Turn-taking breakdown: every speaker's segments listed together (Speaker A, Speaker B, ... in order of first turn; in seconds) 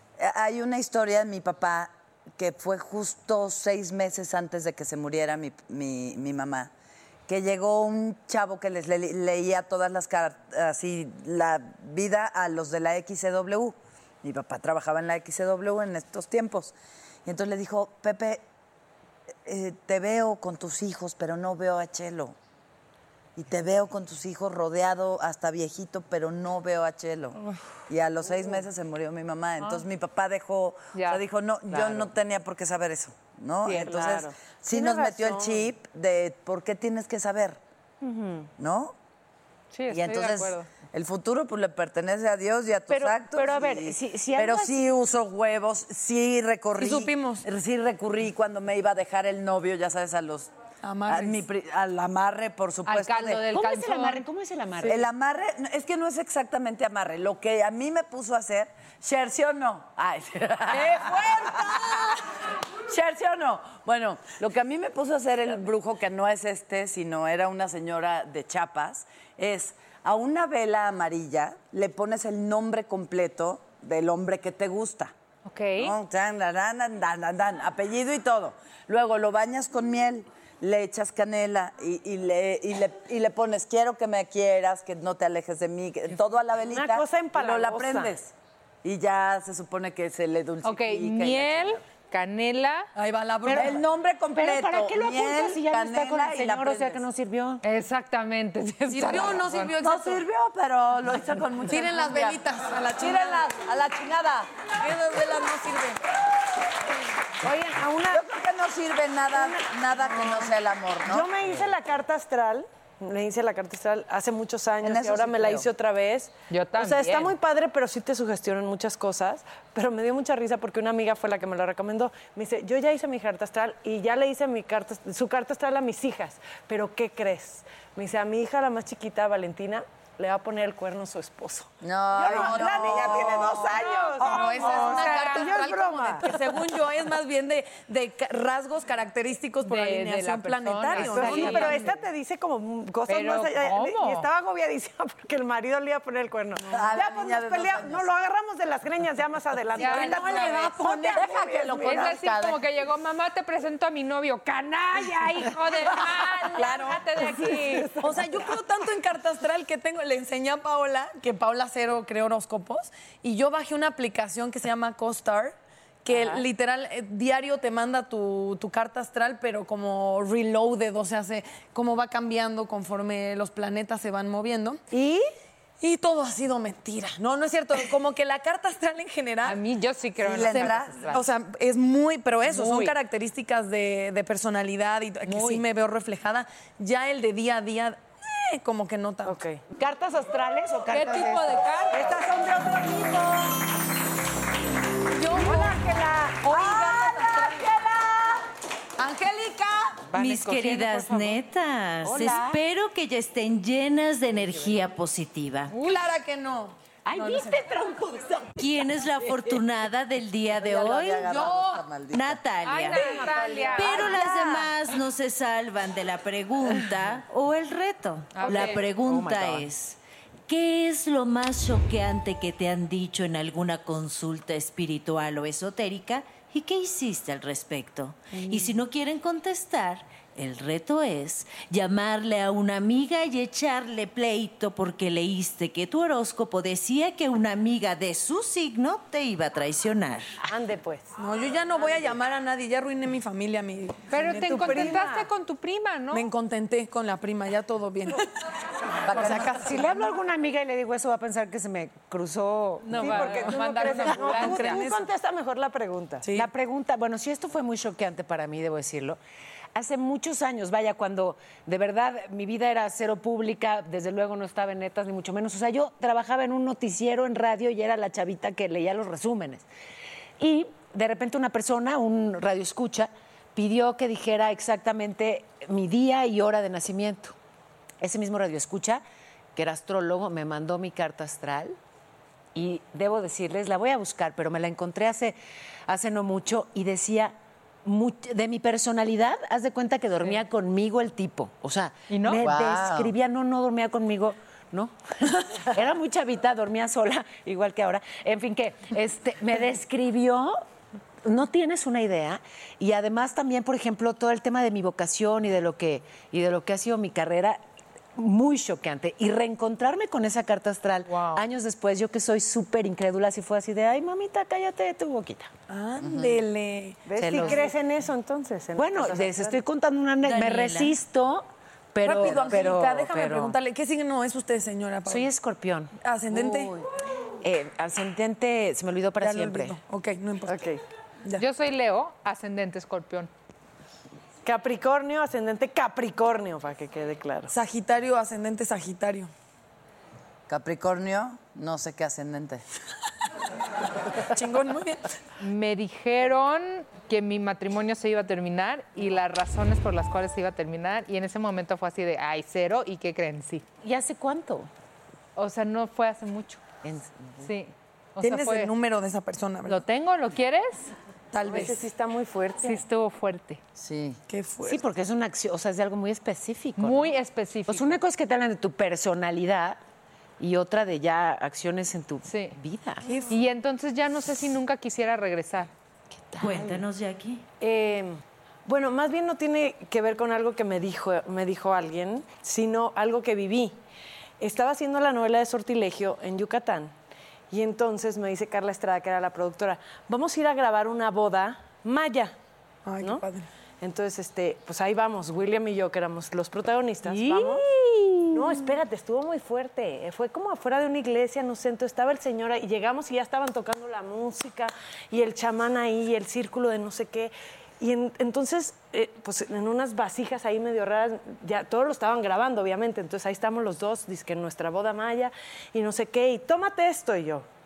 Speaker A: 0.2-6.7, 7.3-18.4, 19.4-22.4, 23.4-37.6, 38.6-39.0, 39.9-50.5, 51.1-53.5, 54.9-62.1, 62.9-75.1, 75.8-88.3, 88.8-91.8, 93.5-97.0, 99.8-102.4, 103.0-104.5, 108.1-111.3, 114.8-115.7, 131.8-133.8, 146.7-148.1, 151.1-152.6, 156.6-157.0, 180.2-181.1, 192.2-193.2, 196.5-198.4, 210.6-212.4, 214.0-214.6, 249.1-249.4, 340.5-342.6, 363.8-364.2
Speaker B: 30.9-31.2, 39.7-40.7, 52.9-54.2, 75.5-75.9, 90.6-92.9, 97.6-99.8, 116.5-117.4, 134.3-135.5, 139.6-142.0, 143.1-144.3, 149.8-150.5, 151.9-158.0, 179.4-181.3, 182.5-183.0, 185.3-185.7, 190.9-192.1, 205.7-206.0, 212.6-214.1, 218.3-218.8, 244.1-246.3, 252.8-254.8, 292.1-292.6, 311.1-311.4, 331.4-333.3, 345.4-353.6, 355.4-356.6, 357.4-358.7, 359.6-360.9, 362.6-363.6, 366.8-368.0, 372.3-372.6, 373.3-375.7
Speaker C: 33.7-35.6, 38.0-38.5, 86.7-88.1, 107.4-108.2, 109.3-110.5, 111.0-136.3, 141.0-152.1, 157.4-158.3, 166.1-166.4, 174.9-175.2, 189.2-191.3, 191.9-192.8, 218.5-219.6, 240.4-241.1, 244.7-245.1, 253.0-256.2, 317.1-319.6, 330.5-330.8, 334.4-337.5, 361.4-362.8, 377.6-383.8, 384.4-386.9, 387.5-392.4, 393.8-397.6, 398.3-417.5
Speaker D: 42.9-44.8, 53.5-55.0, 93.5-97.6, 189.8-191.4, 200.1-201.1, 202.0-202.6, 207.1-208.6, 218.5-219.6, 249.1-254.5, 256.3-259.2, 259.8-269.7, 270.4-277.4, 278.0-279.0, 279.6-281.8, 282.6-300.6, 301.2-307.6, 308.2-315.5, 317.2-317.7, 318.8-323.6, 325.1-326.8, 327.4-329.8, 353.8-354.7, 356.8-357.5, 364.6-367.1, 367.7-369.8, 370.4-373.1, 376.2-376.8, 397.1-398.6
Speaker E: 46.8-47.5, 50.8-51.4, 60.8-62.1, 93.0-93.8, 98.9-100.2, 101.7-103.6, 104.8-106.0, 133.8-142.0, 149.8-151.2, 158.0-174.8, 175.8-179.6, 181.1-189.4, 195.2-197.7, 199.0-200.1, 205.8-207.7, 211.3-211.8, 241.2-245.1, 246.1-248.3, 249.0-249.9, 253.8-255.1, 256.2-256.5, 315.7-317.1, 322.0-325.3, 326.0-326.8, 329.2-330.7, 337.5-339.3, 344.2-345.1, 358.2-359.8, 361.3-361.9, 364.3-364.8, 373.1-373.4, 392.9-393.5
Speaker F: 200.1-205.7, 208.6-211.4, 212.1-213.1, 213.8-240.4, 320.2-321.0, 376.4-377.4